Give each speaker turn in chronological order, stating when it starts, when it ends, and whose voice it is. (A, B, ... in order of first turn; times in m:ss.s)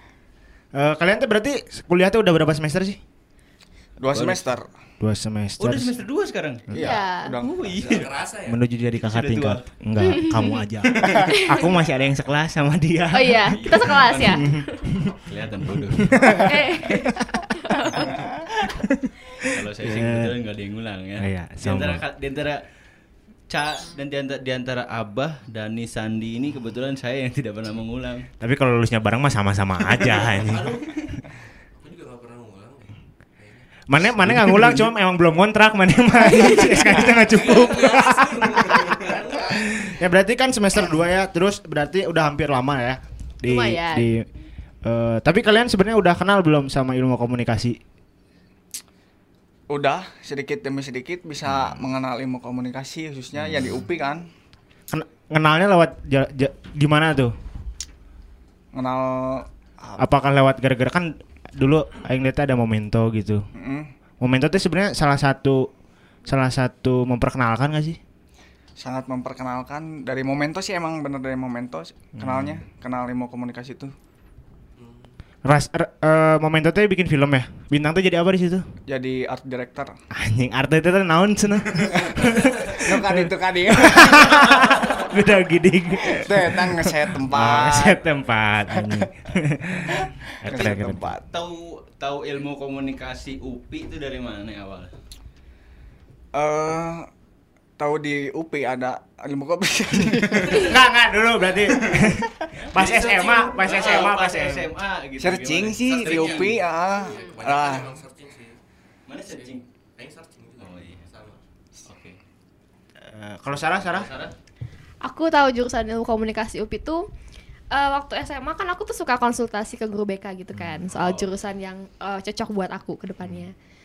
0:00.7-0:03.0 A
0:04.0-0:04.7 B
0:04.1-0:04.5 C
0:05.0-0:05.9 A
0:05.6-0:08.1 C
0:06.7-0:07.7 B
0:06.8-0:07.3 D
0:07.7-0:08.6 E
0:08.5-0:15.2 A
0:09.0-0:09.6 C
0:10.0-0:10.6 D
0:11.3-0:11.6 D
0:13.1-0:14.8 D
0:13.5-0:14.5 C
0:15.2-0:17.2 C
0:15.9-0:16.6 A
0:16.4-0:18.2 D
0:18.7-0:20.4 A
0:19.4-0:22.6 C
0:21.2-0:22.0 A
0:23.5-0:28.3 C
0:28.4-0:30.8 A
0:29.9-0:31.0 C
0:30.5-0:30.8 E
0:31.7-0:33.7 E
0:33.9-0:44.3 A
0:34.3-0:34.8 C
0:36.2-0:36.9 D
0:37.1-0:39.8 E
0:43.4-0:44.1 D
0:44.8-0:47.8 A
0:49.7-0:54.3 B
0:51.4-0:51.8 A
0:53.4-0:53.8 A
0:54.9-0:57.3 A
0:58.7-1:00.0 B
1:00.0-1:03.4 A
1:03.5-1:03.9 B
1:04.2-1:05.7 A
1:06.3-1:08.0 A
1:08.8-1:13.9 B
1:12.2-1:12.6 A
1:14.8-1:15.1 E
1:15.4-1:18.6 A
1:18.9-1:20.0 B
1:20.1-1:31.2 A
1:22.8-1:24.9 B
1:26.1-1:28.0 B
1:28.8-1:29.1 B
1:29.9-1:31.1 B
1:30.5-1:34.9 C
1:36.3-1:37.1 B
1:37.8-1:40.8 B
1:40.6-1:44.7 A
1:42.5-1:46.6 C
1:45.2-1:48.0 B
1:45.8-1:48.6 E
1:49.1-1:49.6 C
1:49.4-1:51.4 E
1:50.6-1:51.0 C
1:51.8-1:52.2 C
1:53.0-1:54.1 A
1:53.8-1:54.3 C
1:55.0-1:57.1 D
1:57.7-2:03.5 D
2:00.5-2:00.9 A
2:00.9-2:01.3 C